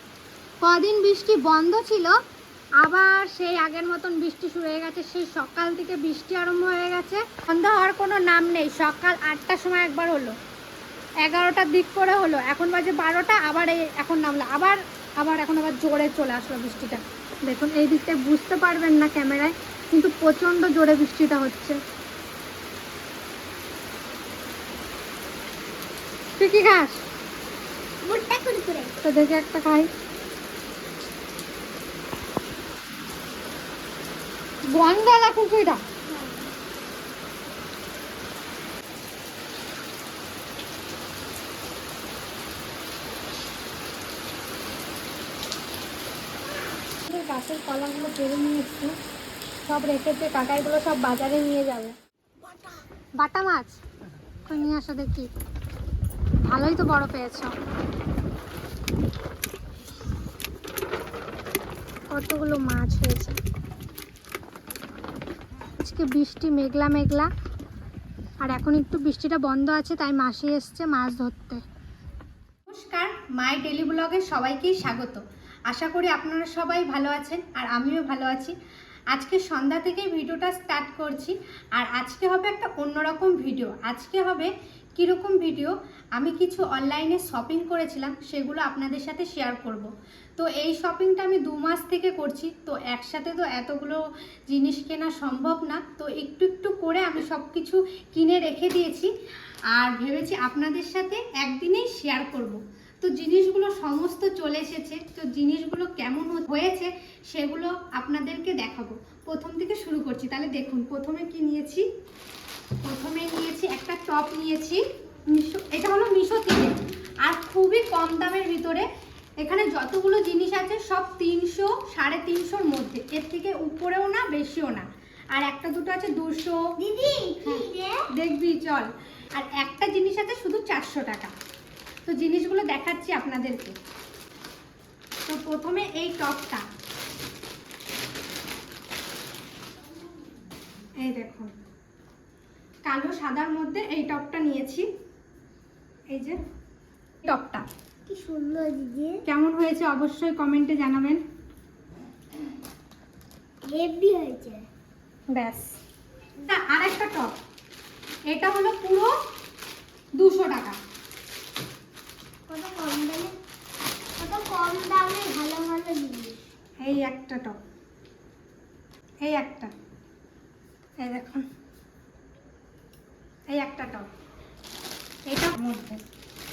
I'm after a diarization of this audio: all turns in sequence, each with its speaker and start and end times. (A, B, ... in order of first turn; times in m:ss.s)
0:00.6-0:02.1 A
0:02.8-0:10.3 A
0:11.2-0:21.8 A
0:26.4-0:27.0 A
0:28.0-0:28.9 B
0:29.0-0:29.9 A
0:34.7-0:35.8 A
0:36.1-0:36.5 B
0:47.0-0:48.9 A
0:49.6-0:51.9 A
0:53.2-0:53.8 A
0:54.4-0:55.3 A
0:56.4-0:57.5 A
1:02.1-1:03.4 A
1:05.8-1:07.3 A
1:08.4-1:11.6 A
1:12.7-1:18.5 A
1:19.1-1:39.1 A
1:39.7-1:51.8 A
1:52.8-1:58.9 A
1:59.4-2:06.6 A
2:06.8-2:08.0 B
2:08.2-2:11.3 A
2:12.0-2:13.7 A
2:15.2-2:16.6 A
2:21.0-2:21.5 A
2:22.8-2:24.9 A
2:26.1-2:26.4 A
2:27.2-2:27.6 A
2:28.1-2:29.2 B
2:29.2-2:31.2 A
2:33.6-2:34.6 B
2:35.3-2:35.8 A
2:36.4-2:37.4 A
2:38.3-2:39.1 A
2:40.2-2:40.8 A
2:42.5-2:43.3 B
2:44.2-2:46.4 B
2:46.8-2:47.6 A
2:49.2-2:49.7 A
2:51.0-2:51.4 A
2:53.5-2:54.1 A
2:55.3-2:56.0 A